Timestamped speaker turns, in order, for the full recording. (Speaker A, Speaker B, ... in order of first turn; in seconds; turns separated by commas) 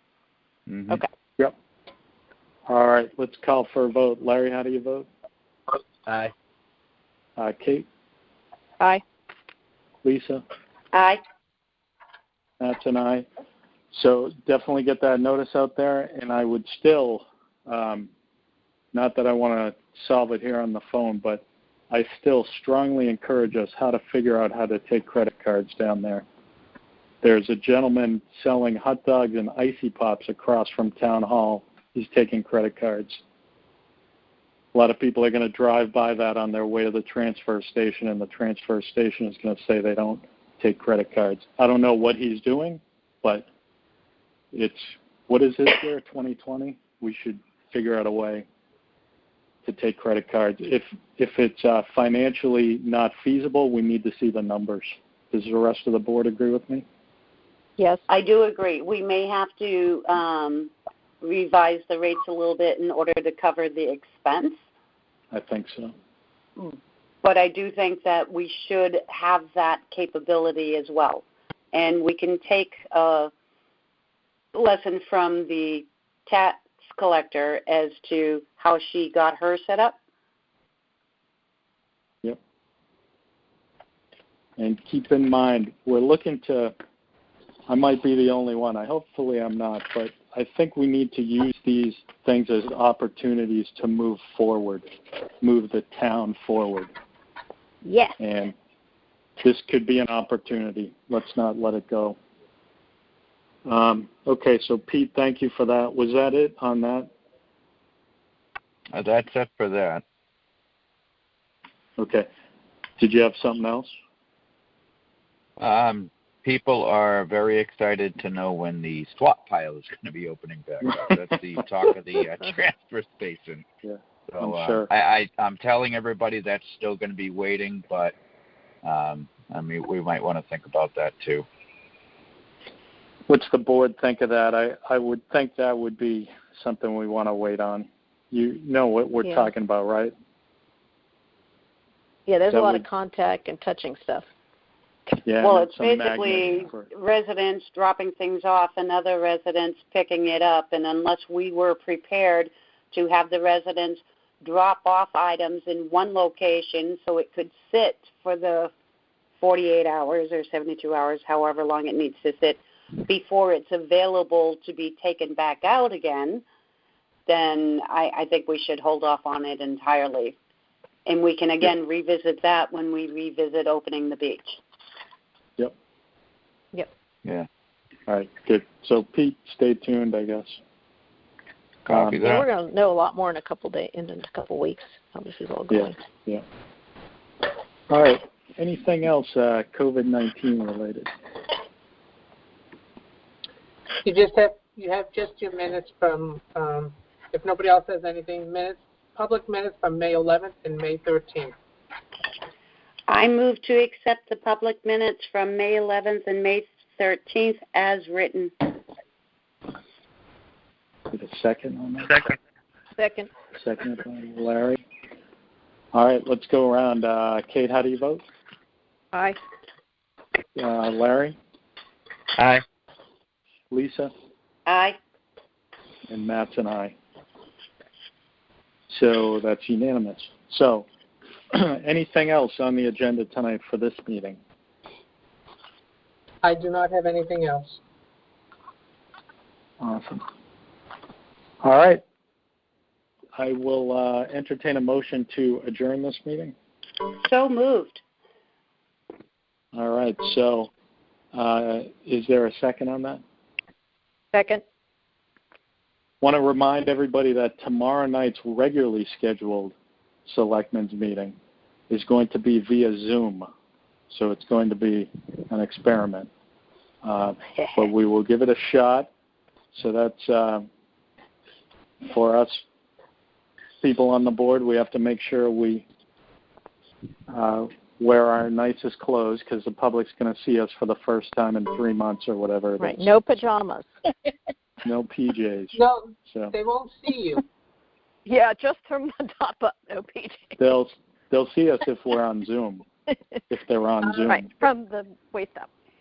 Speaker A: 0.7-1.0, Speaker B: 2.7-5.1, Speaker B: 7.4-7.8, Speaker B: 10.0-10.4, Speaker C: 10.9-11.2, Speaker B: 12.6-13.2, Speaker B: 13.9-18.1, Speaker B: 18.9-26.2, Speaker B: 27.2-33.2, Speaker B: 34.7-43.5, Speaker B: 44.5-48.5, Speaker B: 49.6-56.8, Speaker C: 58.1-64.6, Speaker B: 65.3-65.9, Speaker C: 66.6-73.3, Speaker C: 74.5-80.0, Speaker B: 84.6-86.7, Speaker B: 87.7-94.9, Speaker B: 95.4-96.9, Speaker D: 97.8-98.2, Speaker B: 98.2-98.5, Speaker B: 99.4-102.2, Speaker B: 103.6-107.1, Speaker A: 108.9-110.0, Speaker B: 112.0-112.3, Speaker B: 113.0-113.9, Speaker A: 115.6-123.7, Speaker B: 123.8-124.9, Speaker A: 124.3-128.1, Speaker A: 128.8-131.5, Speaker B: 133.3-140.1, Speaker D: 139.2-139.5, Speaker D: 142.2-144.2, Speaker B: 142.5-142.8, Speaker B: 145.2-146.9, Speaker C: 145.4-158.7, Speaker C: 159.4-166.4, Speaker C: 167.2-170.4, Speaker C: 171.1-174.6, Speaker B: 178.1-180.6, Speaker A: 181.8-182.4, Speaker B: 181.9-182.2, Speaker D: 182.1-186.0, Speaker B: 185.7-186.4, Speaker B: 187.9-191.1, Speaker E: 194.0-201.5, Speaker C: 203.1-208.7, Speaker B: 211.1-212.3, Speaker D: 213.0-213.3, Speaker B: 213.5-214.8, Speaker B: 215.9-218.2, Speaker D: 219.1-219.4, Speaker B: 220.6-221.4, Speaker B: 223.7-224.1, Speaker C: 224.7-225.0, Speaker B: 226.1-226.9, Speaker B: 228.9-230.9, Speaker B: 231.5-234.4, Speaker E: 236.4-237.8, Speaker B: 239.8-240.2, Speaker B: 241.6-242.0, Speaker B: 243.3-246.5, Speaker C: 247.2-248.0, Speaker B: 249.7-250.7, Speaker B: 251.3-253.2, Speaker D: 254.3-254.6, Speaker B: 256.2-259.7, Speaker B: 260.2-261.4, Speaker B: 261.9-263.5, Speaker B: 264.1-266.3, Speaker B: 267.0-269.1, Speaker B: 269.7-270.7, Speaker B: 272.1-272.6, Speaker B: 273.8-275.9, Speaker B: 277.3-283.4, Speaker D: 282.8-283.9, Speaker B: 284.8-286.5, Speaker E: 285.7-287.4, Speaker D: 288.2-290.6, Speaker B: 290.6-292.8, Speaker B: 293.5-294.5, Speaker E: 294.0-294.4, Speaker D: 294.3-295.7